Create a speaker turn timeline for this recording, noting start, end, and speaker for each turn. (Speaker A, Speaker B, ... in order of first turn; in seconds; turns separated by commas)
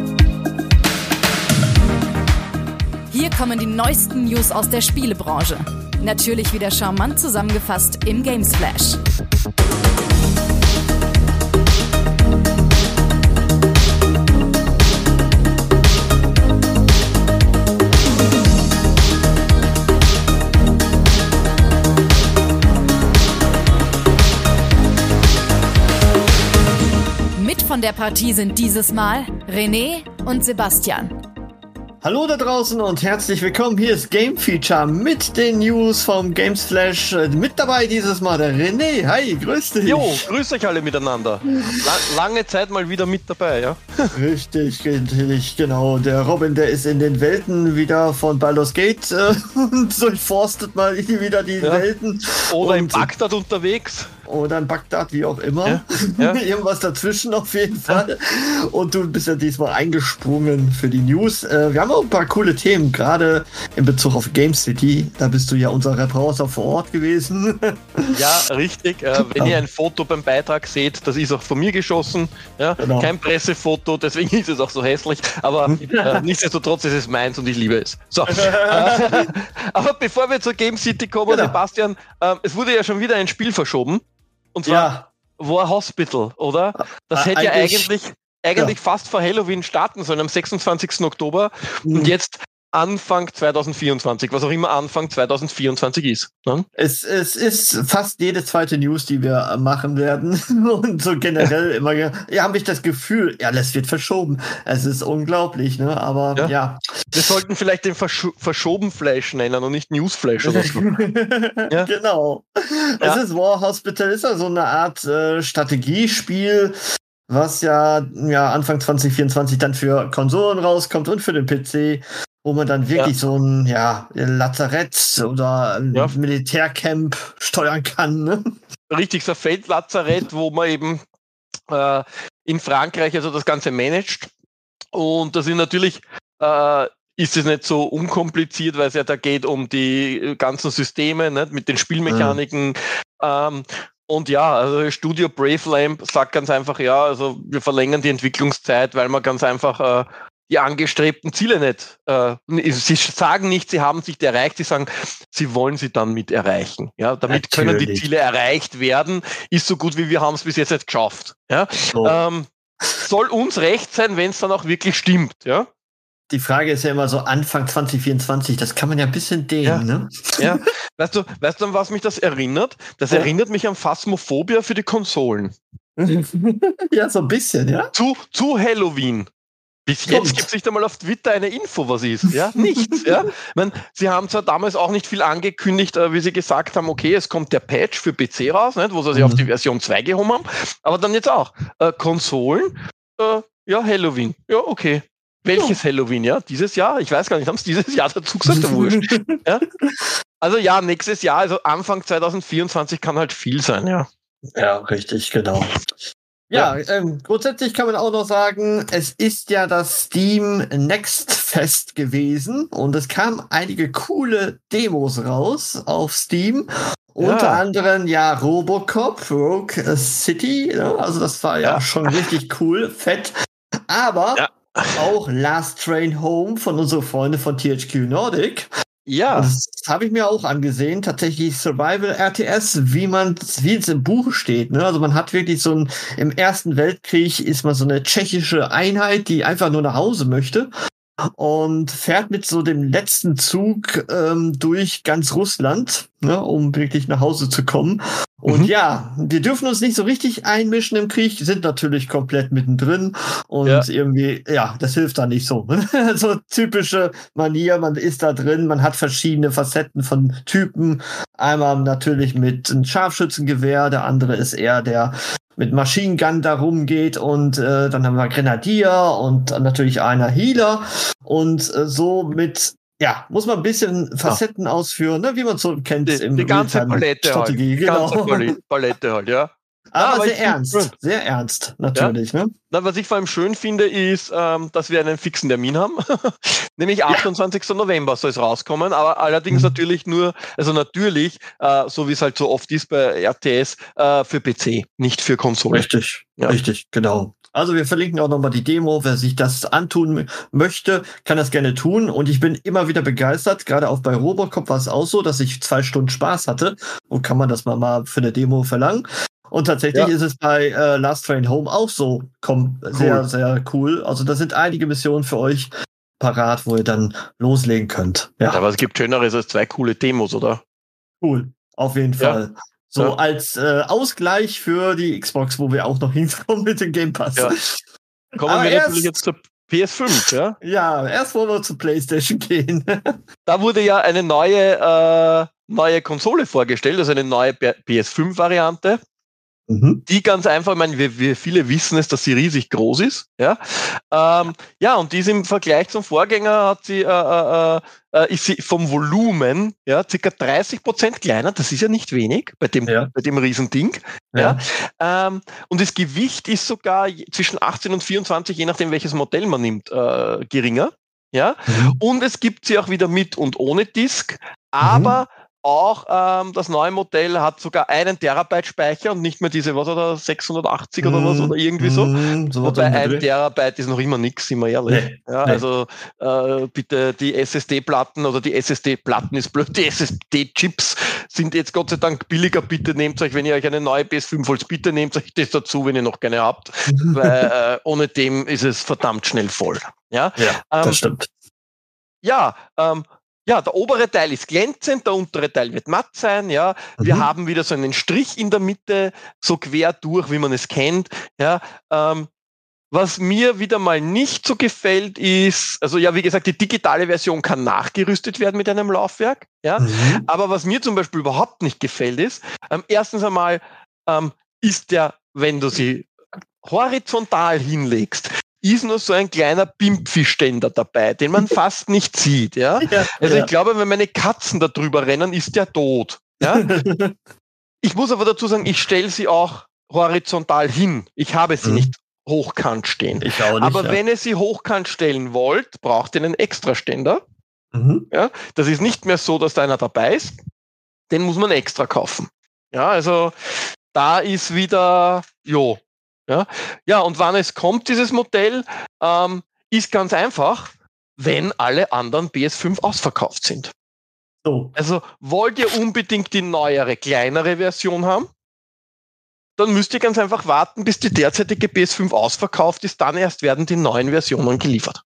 Speaker A: 3.1-9.0, Speaker A: 27.4-31.1, Speaker B: 32.0-40.2, Speaker C: 39.8-44.1, Speaker B: 41.5-42.0, Speaker B: 44.1-53.1, Speaker C: 51.6-51.9, Speaker C: 52.5-54.1, Speaker B: 54.3-68.3, Speaker C: 55.6-56.4, Speaker C: 68.1-84.0, Speaker B: 69.2-69.6, Speaker B: 72.8-73.1, Speaker B: 75.7-76.2, Speaker B: 78.3-79.3, Speaker B: 81.3-81.6, Speaker C: 84.5-96.7, Speaker B: 84.6-85.1, Speaker B: 87.1-87.9, Speaker B: 91.8-92.1, Speaker B: 96.8-107.2, Speaker C: 107.1-110.9, Speaker B: 110.4-116.7, Speaker B: 117.3-128.6, Speaker C: 128.9-131.0, Speaker C: 131.7-134.3, Speaker C: 134.9-165.7, Speaker B: 142.1-142.4, Speaker B: 157.3-158.0, Speaker B: 166.3-170.6, Speaker C: 170.4-175.6, Speaker B: 176.0-177.9, Speaker C: 177.9-179.3, Speaker C: 179.8-199.7, Speaker B: 180.1-180.5, Speaker B: 182.6-183.2, Speaker B: 189.1-189.4, Speaker B: 198.5-200.1, Speaker C: 200.4-204.1, Speaker B: 204.6-205.7, Speaker B: 206.5-223.3, Speaker C: 217.2-217.6, Speaker C: 221.6-222.2, Speaker B: 223.9-224.4, Speaker C: 224.3-225.0, Speaker B: 224.9-228.7, Speaker C: 229.1-229.5, Speaker B: 229.3-240.7, Speaker B: 241.4-278.5, Speaker C: 276.1-280.9, Speaker B: 279.9-282.5, Speaker C: 282.7-296.6, Speaker B: 295.7-318.6, Speaker C: 312.9-313.2, Speaker C: 318.5-320.6, Speaker B: 321.2-327.8, Speaker C: 328.3-330.6, Speaker B: 328.4-329.2, Speaker B: 330.6-333.1, Speaker C: 333.5-339.0, Speaker B: 339.7-340.0, Speaker C: 340.1-372.1, Speaker B: 352.9-353.1, Speaker B: 361.7-362.0, Speaker B: 364.8-365.2, Speaker B: 371.0-373.2, Speaker C: 372.6-391.0, Speaker B: 374.9-375.6, Speaker B: 386.9-387.5, Speaker B: 390.4-391.3, Speaker C: 392.2-402.3, Speaker B: 397.0-397.3, Speaker C: 402.9-416.1, Speaker B: 409.8-410.2, Speaker C: 416.6-426.7, Speaker B: 422.8-423.5, Speaker B: 426.4-427.1, Speaker C: 427.8-437.2, Speaker B: 431.6-431.9, Speaker B: 433.2-434.0, Speaker B: 437.7-438.1, Speaker C: 438.1-440.4, Speaker C: 441.1-453.7, Speaker B: 454.4-454.7, Speaker C: 454.8-458.3, Speaker C: 459.6-465.0